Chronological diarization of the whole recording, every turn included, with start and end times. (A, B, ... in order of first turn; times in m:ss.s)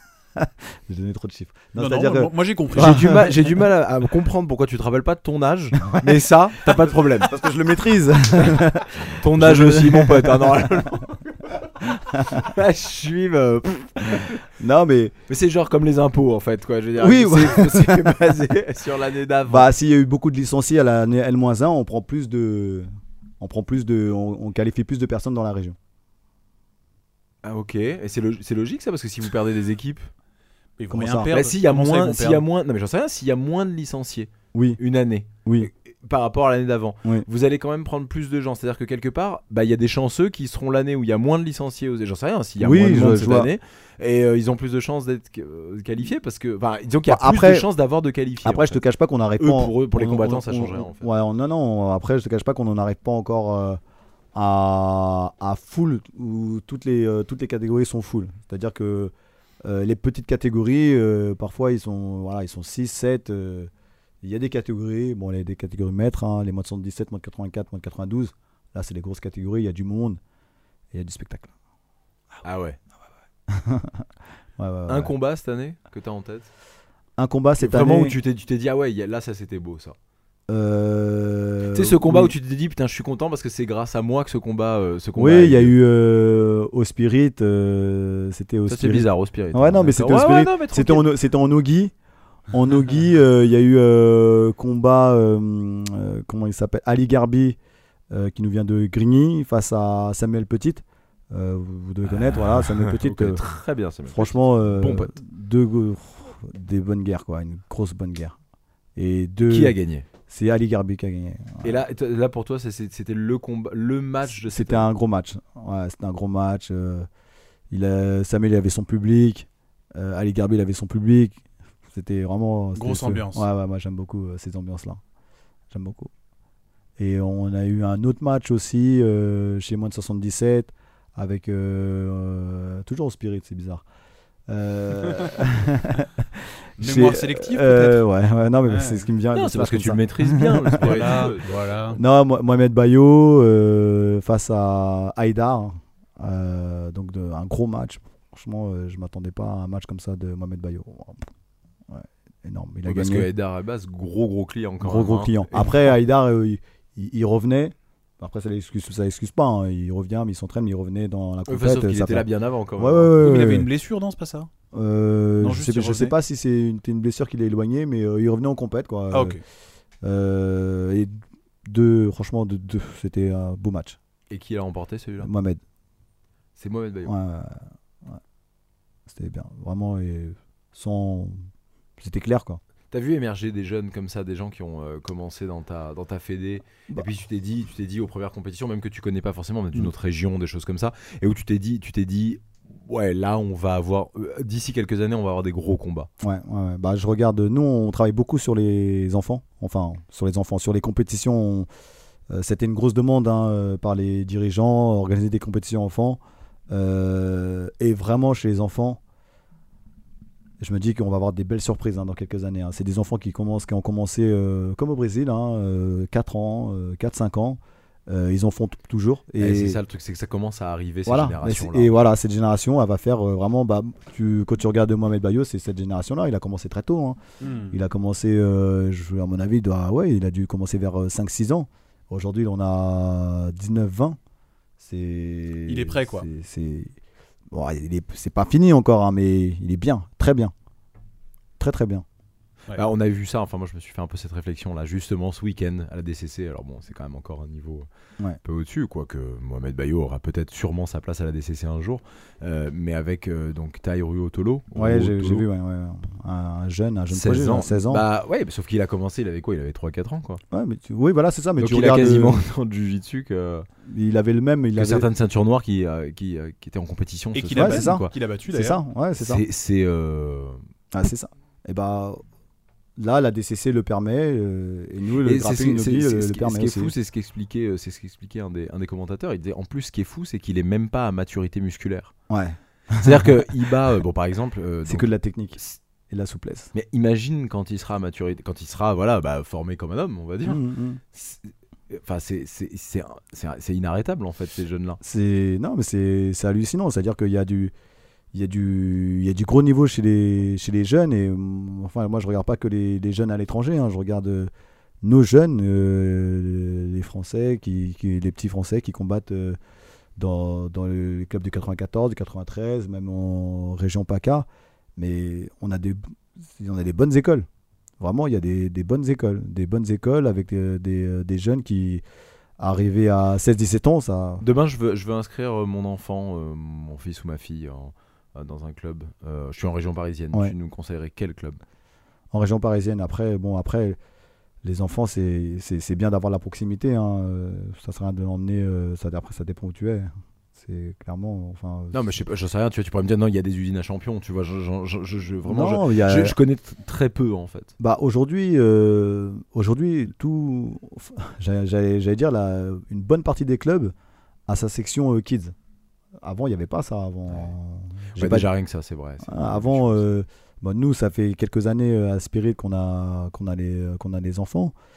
0:00.4-0:03.6 A
0:01.8-0:03.2 B
0:02.8-0:07.4 C
0:05.8-0:06.2 A
0:07.2-0:10.9 A
0:09.1-0:11.7 C
0:12.1-0:12.5 A
0:12.3-0:14.4 C
0:14.0-0:15.2 A
0:15.3-0:19.7 C
0:17.0-0:18.4 A
0:19.5-0:22.9 A
0:23.4-0:25.8 A
0:27.4-0:30.1 C
0:30.8-0:32.4 B
0:30.9-0:31.3 A
0:31.3-0:48.8 C
0:34.5-0:34.8 A
0:35.4-0:35.7 A
0:42.6-0:43.5 A
0:47.1-0:47.7 A
0:48.4-0:53.8 A
0:49.4-0:51.1 C
0:54.3-0:59.1 A
0:59.6-1:03.7 A
1:04.2-1:10.2 A
1:10.9-1:11.5 A
1:12.4-1:12.8 C
1:13.5-1:14.1 A
1:14.6-1:15.1 A
1:14.9-1:16.5 C
1:17.2-1:18.2 A
1:17.6-1:20.0 C
1:20.5-1:22.4 A
1:21.7-1:25.8 C
1:25.2-1:31.9 A
1:28.7-1:31.1 C
1:32.5-1:37.6 A
1:38.1-1:43.4 A
1:42.1-1:45.2 C
1:44.1-1:48.4 A
1:49.0-1:49.8 A
1:49.5-1:50.1 C
1:50.3-1:51.8 A
1:51.6-1:54.9 C
1:54.3-1:57.1 A
1:57.7-2:01.4 A
2:01.9-2:05.0 A
2:02.8-2:03.5 B
2:05.7-2:06.1 A
2:07.0-2:13.8 A
2:14.5-2:21.3 A
2:16.8-2:18.0 B
2:18.7-2:19.0 B
2:19.3-2:21.8 C
2:20.8-2:22.0 B
2:21.9-2:31.2 A
2:31.9-2:33.3 A
2:32.9-2:35.9 C
2:34.8-2:43.7 A
2:41.5-2:43.1 C
2:43.2-2:44.5 B
2:44.7-2:49.4 A
2:45.4-2:46.2 B
2:49.1-2:49.4 B
2:50.0-2:51.1 A
2:51.6-2:54.0 A
2:54.3-2:55.3 C
2:55.2-2:55.6 A
2:56.6-2:57.1 C
2:57.0-2:58.2 A
2:59.1-3:01.4 A
3:02.0-3:02.6 A
3:02.9-3:16.1 C
3:16.2-3:21.7 A
3:22.3-3:29.0 A
3:30.6-3:39.8 A
3:39.4-3:41.9 C
3:41.1-3:47.2 A
3:47.4-3:47.8 B
3:47.7-3:54.2 A
3:54.8-3:57.0 A
3:55.7-3:56.3 B
3:57.5-4:00.5 A
4:01.6-4:02.0 A
4:02.8-4:07.9 C
4:08.4-4:15.4 C
4:14.8-4:18.0 A
4:17.1-4:20.4 C
4:20.5-4:22.4 A
4:21.6-4:23.7 C
4:23.8-4:25.1 A
4:24.8-4:28.1 C
4:27.3-4:28.8 B
4:27.6-4:29.4 A
4:29.2-4:30.6 C
4:30.9-4:32.2 A
4:33.0-4:36.9 A
4:35.2-4:42.1 C
4:42.3-4:43.6 A
4:43.0-4:45.1 C
4:44.9-4:46.7 A
4:46.7-4:50.6 C
4:50.4-4:51.0 A
4:51.1-4:55.0 C
4:55.0-4:57.7 A
4:58.3-5:04.5 A
5:05.0-5:09.6 A
5:10.2-5:16.0 A
5:16.6-5:17.5 A
5:18.0-5:22.0 A
5:22.6-5:24.4 A
5:24.4-5:31.6 C
5:32.3-5:34.0 A
5:34.6-5:42.0 A
5:41.9-5:47.7 C
5:45.4-5:46.4 A
5:47.8-5:53.9 A
5:54.5-5:55.6 A
5:56.2-5:58.5 A
5:58.2-6:00.0 C
5:59.2-6:04.7 A